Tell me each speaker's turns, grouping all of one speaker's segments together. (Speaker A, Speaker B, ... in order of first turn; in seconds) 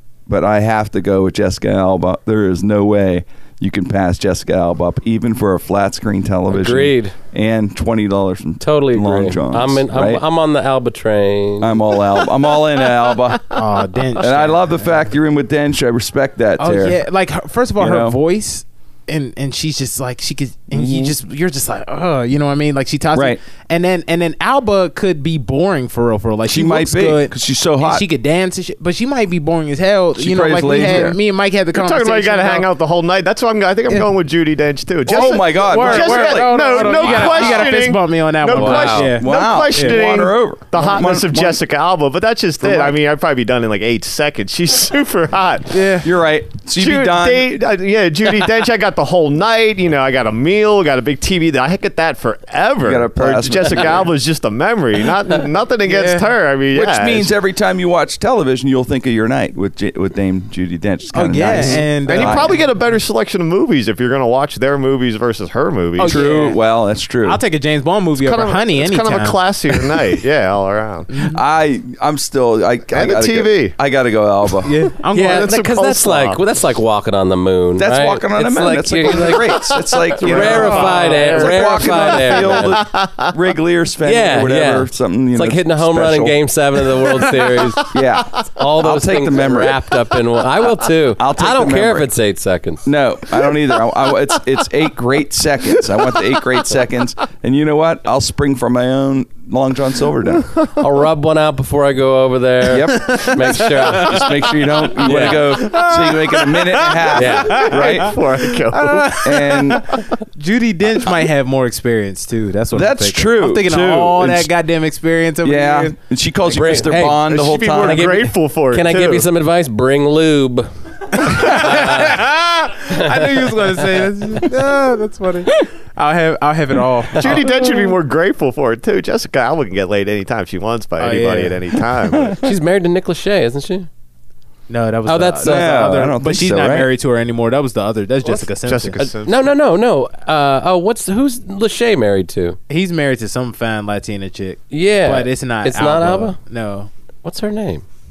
Speaker A: 0.3-10.2, 11.6-13.6, 14.2-17.0, 17.8-18.2, 20.7-21.1, 23.1-23.4, 26.4-28.1, 30.1-31.2, 35.0-37.5, 39.1-41.6, 42.6-43.0, 46.0-47.5, 52.8-54.1, 56.7-62.6, 66.0-67.4, 71.2-74.7, 77.8-86.4, 87.9-89.8, 91.2-92.1, 92.8-100.5, 102.7-108.2, 109.2-109.9, 112.7-114.5, 115.4-118.1, 135.4-136.9
Speaker B: 6.5-7.2, 8.6-11.9, 38.5-39.1, 75.1-82.8, 84.0-92.9, 100.7-105.7, 107.1-107.7, 116.5-122.2, 122.9-124.0, 132.3-133.9, 135.1-135.9, 139.0-142.6, 144.7-146.4, 147.2-147.8
Speaker C: 13.5-14.9, 16.6-32.7, 35.1-40.0, 45.7-46.1, 55.9-56.3, 61.1-62.6, 66.0-66.6, 67.2-70.0, 71.1-71.4, 74.6-75.5, 80.4-81.3, 102.9-104.3, 105.5-116.0, 121.1-127.7, 131.0-131.7, 134.7-139.0, 142.7-146.9
Speaker D: 31.7-45.9, 46.7-57.3, 61.5-66.5, 68.2-71.1, 72.9-73.8, 75.1-76.4, 79.9-83.3, 107.4-109.3, 117.2-119.3, 127.2-132.5, 138.3-139.4